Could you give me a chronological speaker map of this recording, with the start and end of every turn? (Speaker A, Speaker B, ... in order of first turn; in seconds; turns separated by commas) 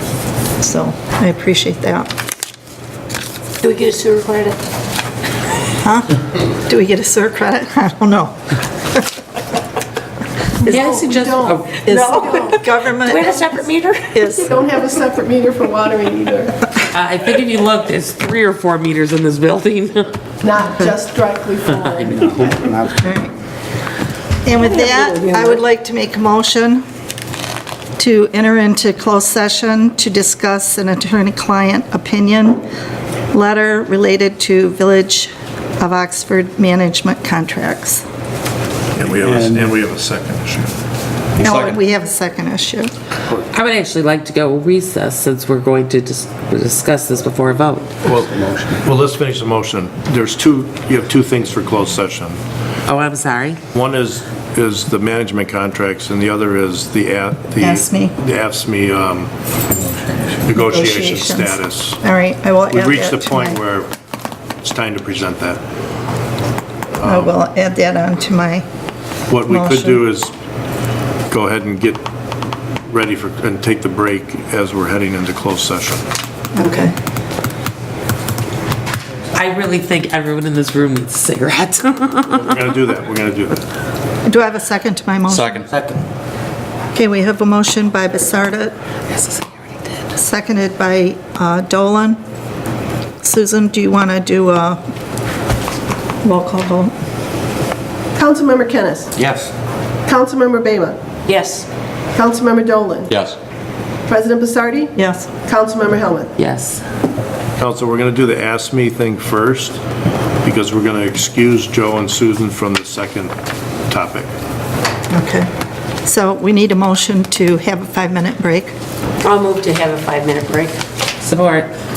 Speaker A: 0.6-2.1, Speaker B: 3.6-4.5, Speaker A: 5.8-8.5, Speaker C: 10.6-12.6, Speaker D: 10.7-11.8, Speaker A: 11.8-14.5, Speaker B: 11.9-12.4, Speaker B: 13.0-14.1, Speaker C: 14.3-16.6, Speaker D: 16.9-20.1, Speaker C: 20.4-22.5, Speaker E: 22.0-23.0, Speaker A: 23.0-23.3, Speaker A: 24.4-26.8, Speaker A: 28.0-32.6, Speaker A: 33.3-38.0, Speaker F: 38.9-40.7, Speaker E: 39.2-39.6, Speaker E: 41.4-41.8, Speaker A: 41.4-42.9, Speaker D: 43.5-47.9, Speaker F: 48.0-52.4, Speaker D: 52.9-53.6, Speaker F: 53.7-59.3, Speaker A: 57.6-58.1, Speaker F: 60.4-62.0, Speaker A: 60.5-63.6, Speaker F: 62.7-63.9, Speaker F: 64.6-65.6, Speaker F: 67.0-67.3, Speaker A: 67.0-68.7, Speaker F: 69.3-70.3, Speaker A: 69.5-70.0, Speaker F: 71.3-72.0, Speaker F: 72.9-76.0, Speaker A: 76.5-76.9, Speaker D: 79.3-82.5, Speaker F: 82.3-83.6, Speaker A: 84.2-85.6, Speaker E: 85.3-85.9, Speaker A: 86.9-88.8, Speaker A: 90.1-92.2, Speaker A: 93.2-94.8, Speaker A: 96.2-96.9, Speaker C: 98.2-99.1, Speaker E: 99.2-99.5, Speaker C: 100.1-101.0, Speaker B: 101.3-101.6, Speaker C: 102.1-103.1, Speaker E: 103.1-103.4, Speaker C: 104.1-106.3, Speaker A: 105.0-105.3, Speaker D: 106.4-106.8, Speaker F: 107.6-109.8, Speaker F: 110.4-113.3, Speaker F: 113.9-114.3, Speaker A: 115.1-115.5, Speaker A: 116.0-118.7, Speaker B: 119.2-120.7, Speaker D: 121.2-121.7